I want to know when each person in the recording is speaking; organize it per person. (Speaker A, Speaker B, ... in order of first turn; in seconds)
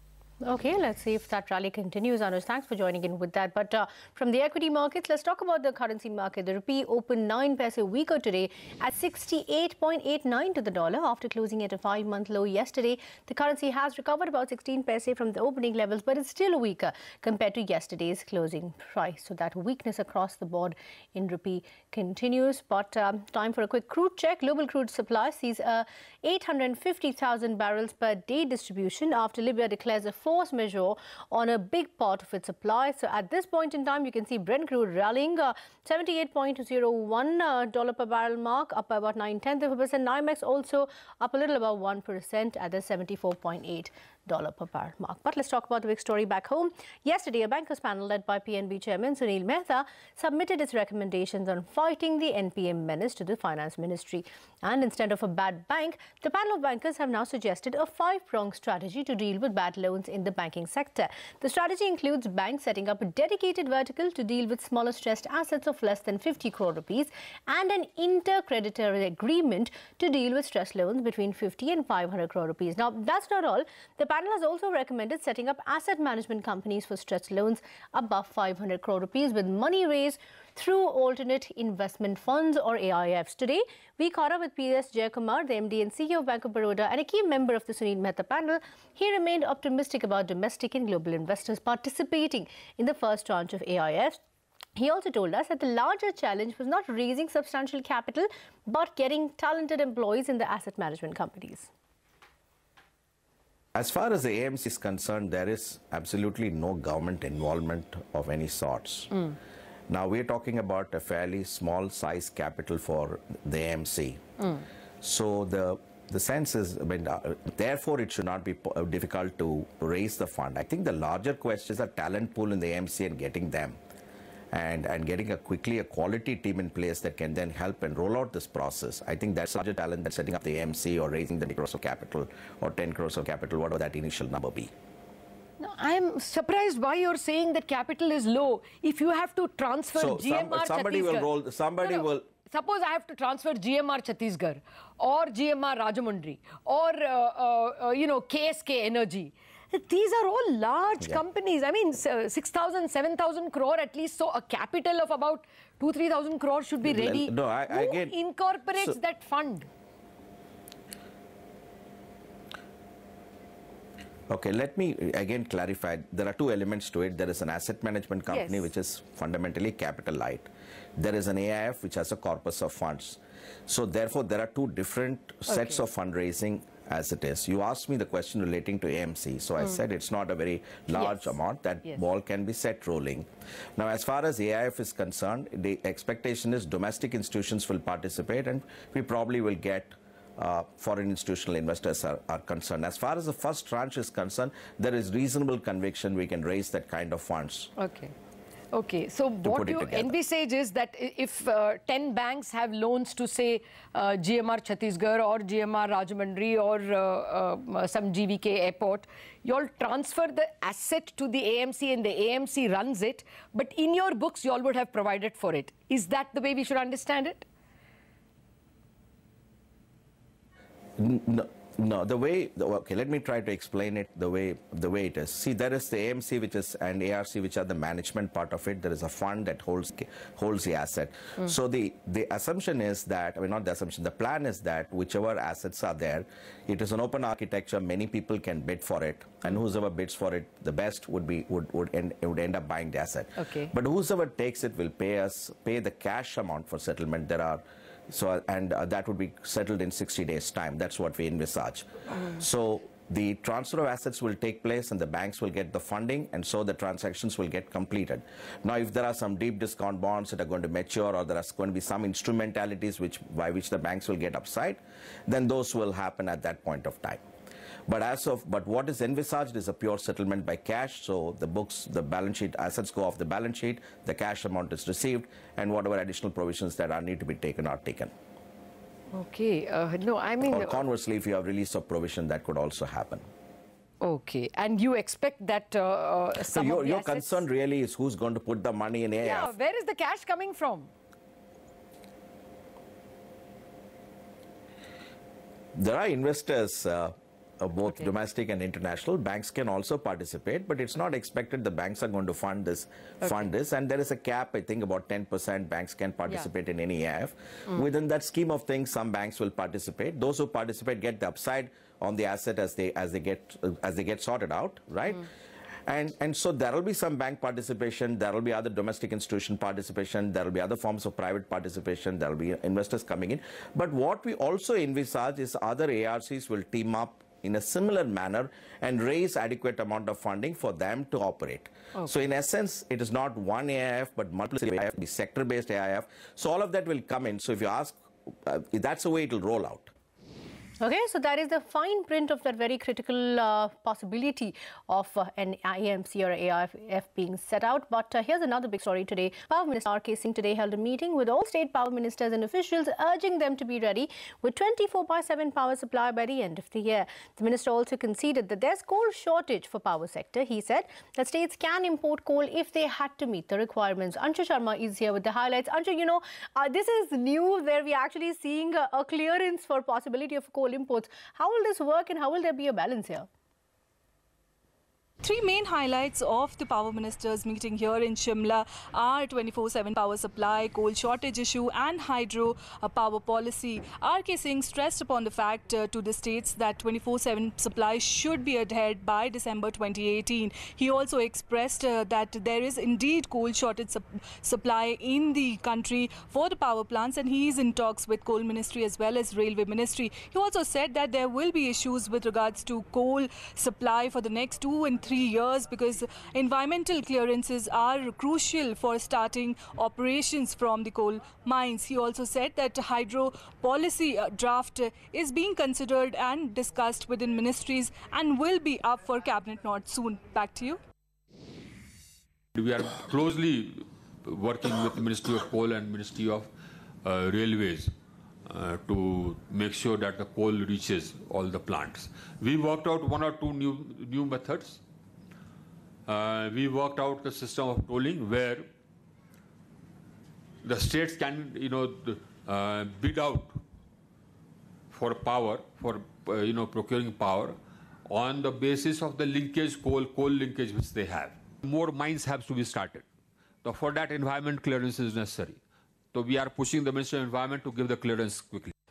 Speaker A: 0.4-94.2, 94.8-101.7, 340.8-373.3
Speaker B: 103.8-109.3, 109.9-114.2, 115.0-123.8, 124.5-134.7, 139.9-142.3, 156.8-158.2, 158.7-159.0, 164.3-197.7, 199.4-200.2, 221.0-267.2, 267.9-278.1, 280.4-283.2, 286.4-289.5, 295.7-315.3, 315.9-339.9
Speaker C: 135.6-159.7, 168.3-168.7, 175.5-175.8, 180.9-182.1, 197.8-198.1, 198.7-217.5, 243.4-243.7, 279.1-280.8, 284.0-287.4, 289.2-290.9
Speaker D: 375.2-420.8
Speaker E: 422.5-426.5, 427.0-427.9, 428.4-434.8, 436.1-438.7, 440.6-443.6, 444.9-453.0, 453.6-455.6, 456.1-458.7